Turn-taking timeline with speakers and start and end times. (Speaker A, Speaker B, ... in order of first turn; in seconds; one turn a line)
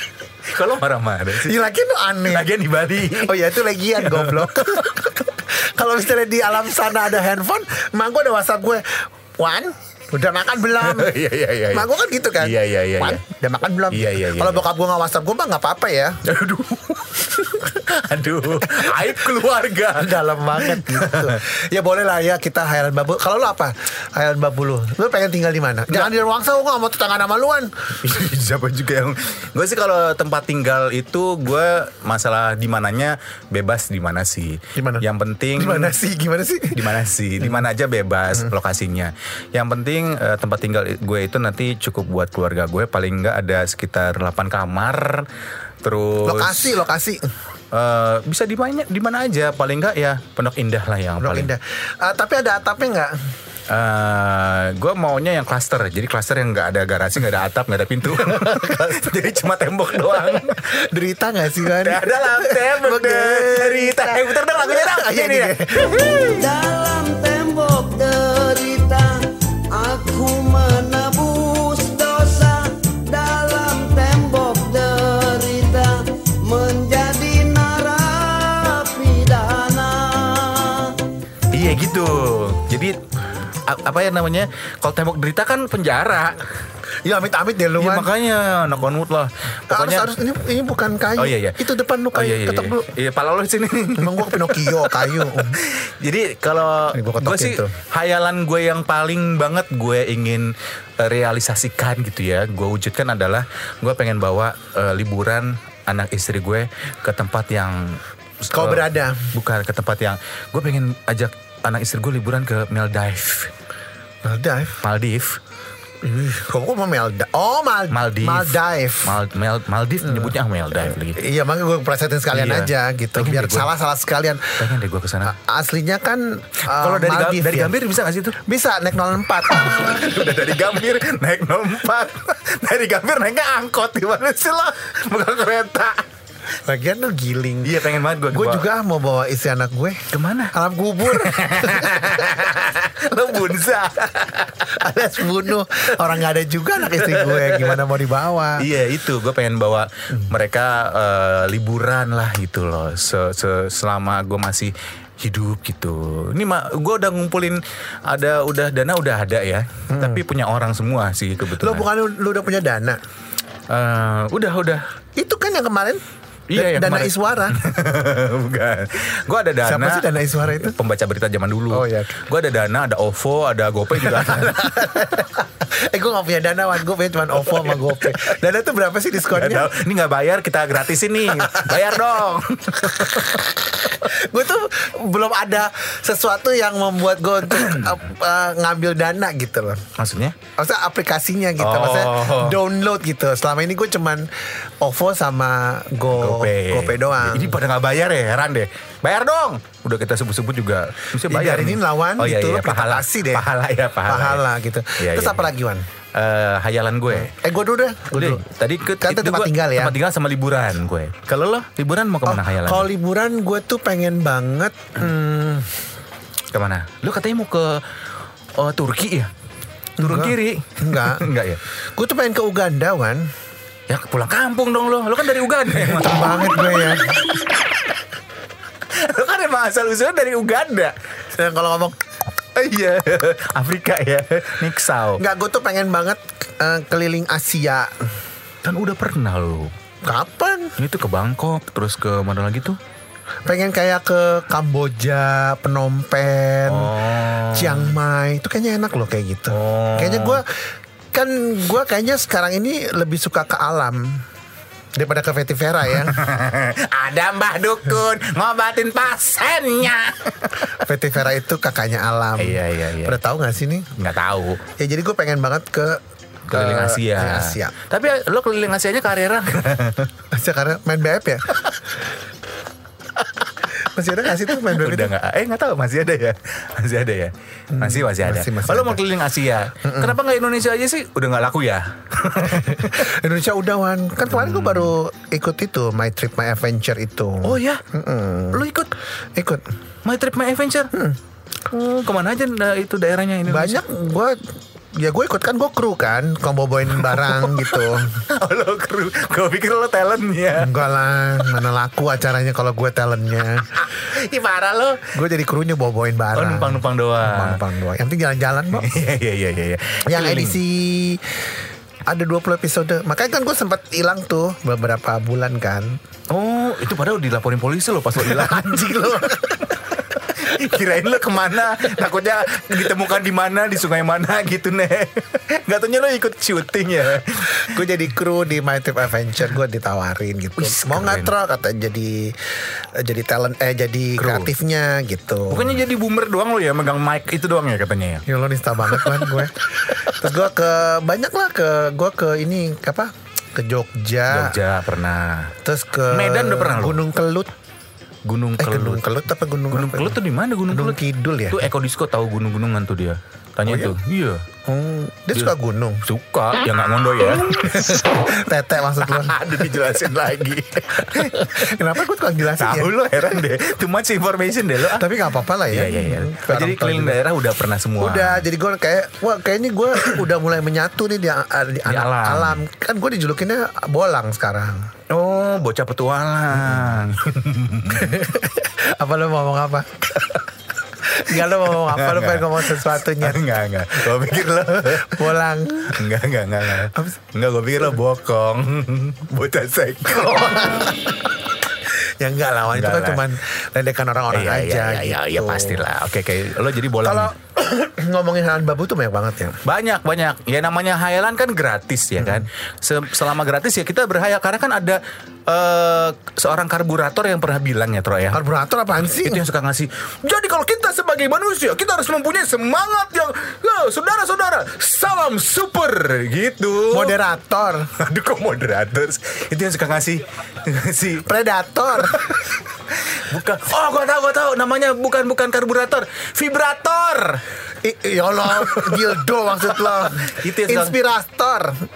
Speaker A: 0.5-1.6
Speaker B: 1.4-2.5
Speaker A: 2.2-3.4
Speaker B: 3.0-11.1
Speaker A: 3.9-5.0
Speaker A: 10.8-13.2
Speaker B: 11.7-16.2
Speaker A: 13.9-14.6
Speaker A: 16.2-21.4
Speaker B: 17.4-17.8
Speaker B: 18.7-19.2
Speaker B: 19.9-28.0
Speaker A: 28.0-36.0
Speaker B: 34.7-37.6
Speaker A: 36.7-45.3
Speaker A: 45.8-46.8
Speaker B: 46.2-47.3
Speaker A: 47.7-51.5
Speaker B: 51.2-53.3
Speaker A: 53.7-60.6
Speaker B: 58.1-59.1
Speaker B: 60.5-66.3
Speaker A: 61.6-66.5
Speaker C: 66.3-81.0
Speaker A: 81.5-83.0
Speaker A: 83.7-86.5
Speaker B: 87.0-88.1
Speaker A: 87.8-90.1
Speaker B: 89.7-92.8
Speaker A: 91.2-91.6
Speaker A: 92.1-113.5
Speaker B: 94.0-95.6
Speaker B: 96.9-97.8
Speaker B: 108.5-109.3
Speaker B: 114.2-114.8
Speaker A: 114.8-115.4
Speaker B: 116.0-119.2
Speaker A: 117.9-121.2
Speaker B: 120.0-124.6
Speaker A: 122.3-123.7
Speaker A: 124.6-125.3
Speaker B: 125.2-127.7
Speaker A: 126.7-128.4
Speaker B: 128.4-129.9
Speaker A: 129.7-136.1
Speaker B: 136.6-142.7
Speaker A: 137.6-138.7
Speaker A: 140.1-144.9
Speaker B: 144.6-148.7
Speaker A: 146.8-147.8
Speaker A: 148.6-161.9
Speaker B: 159.9-160.2
Speaker B: 161.6-163.0
Speaker A: 163.7-164.8
Speaker B: 165.2-166.0
Speaker A: 166.5-175.2
Speaker B: 166.5-167.6
Speaker B: 169.6-170.8
Speaker B: 171.7-172.2
Speaker B: 174.1-179.7
Speaker A: 177.4-178.0
Speaker A: 179.3-183.7
Speaker B: 181.4-181.8
Speaker B: 183.0-183.2
Speaker B: 183.8-189.8
Speaker A: 187.5-188.0
Speaker A: 190.0-190.4
Speaker B: 190.6-197.6
Speaker A: 191.6-192.6
Speaker A: 196.1-204.4
Speaker B: 201.3-203.5
Speaker B: 204.1-205.8
Speaker A: 205.0-205.5
Speaker A: 206.1-207.3
Speaker B: 207.1-208.4
Speaker A: 208.1-212.9
Speaker B: 209.0-209.9
Speaker B: 212.2-215.8
Speaker A: 216.5-217.8
Speaker A: 218.6-219.3
Speaker B: 220.0-221.3
Speaker A: 220.0-221.6
Speaker B: 221.9-223.3
Speaker A: 223.9-227.1
Speaker B: 225.7-227.3
Speaker A: 228.9-230.9
Speaker B: 231.3-232.0
Speaker A: 232.5-235.2
Speaker B: 235.2-238.1
Speaker A: 238.6-239.7
Speaker B: 240.0-240.8
Speaker A: 240.8-242.8
Speaker B: 243.4-254.2
Speaker A: 246.7-248.0
Speaker A: 249.5-250.4
Speaker B: 255.0-256.2
Speaker A: 255.9-260.8
Speaker B: 260.7-263.9
Speaker A: 262.4-263.2
Speaker A: 263.9-264.6
Speaker B: 264.8-267.7
Speaker A: 266.5-270.1
Speaker B: 270.3-271.6
Speaker B: 273.8-275.1
Speaker A: 274.4-283.1
Speaker B: 277.7-279.0
Speaker B: 279.8-280.2
Speaker B: 282.5-288.6
Speaker A: 284.3-284.9
Speaker A: 287.4-287.8
Speaker A: 288.5-288.9
Speaker B: 289.3-289.6
Speaker A: 290.0-290.9
Speaker A: 291.7-293.8
Speaker B: 293.4-298.2
Speaker A: 297.0-300.8
Speaker B: 300.5-303.7
Speaker A: 301.4-301.6
Speaker A: 303.7-305.1
Speaker B: 305.1-308.9
Speaker A: 306.3-307.6
Speaker A: 308.7-310.6
Speaker B: 310.1-311.5
Speaker B: 312.1-316.0
Speaker A: 316.3-327.6
Speaker B: 318.3-319.7
Speaker B: 327.5-335.8
Speaker A: 330.6-331.3
Speaker A: 334.2-334.5
Speaker A: 335.5-338.2
Speaker B: 338.2-344.6
Speaker A: 338.9-339.4
Speaker A: 344.3-345.5
Speaker B: 345.6-347.5
Speaker A: 346.1-347.0
Speaker A: 348.2-349.0
Speaker B: 348.6-350.2
Speaker A: 349.7-351.0
Speaker B: 350.7-351.7
Speaker A: 351.5-354.5
Speaker B: 353.6-353.9
Speaker B: 354.6-356.0
Speaker A: 356.0-358.1
Speaker B: 357.5-359.6
Speaker A: 359.0-361.7
Speaker B: 361.0-362.9
Speaker A: 362.5-365.1
Speaker B: 364.9-367.2
Speaker A: 365.7-368.4
Speaker B: 368.0-374.9
Speaker A: 369.9-370.2
Speaker A: 371.9-372.6
Speaker A: 375.1-378.4
Speaker B: 376.6-376.9
Speaker B: 377.9-380.3
Speaker B: 381.0-386.1
Speaker A: 381.3-385.4
Speaker A: 385.9-391.1
Speaker B: 386.9-387.2
Speaker B: 390.3-391.1
Speaker B: 391.9-395.9
Speaker A: 392.7-393.2
Speaker A: 394.3-397.3
Speaker B: 397.0-399.6
Speaker A: 399.6-408.4
Speaker B: 402.2-402.5
Speaker B: 408.3-409.4
Speaker A: 409.1-417.2
Speaker B: 416.9-417.9
Speaker A: 417.9-421.3
Speaker B: 421.2-422.4
Speaker A: 421.9-427.4
Speaker B: 427.8-431.8
Speaker A: 428.4-431.0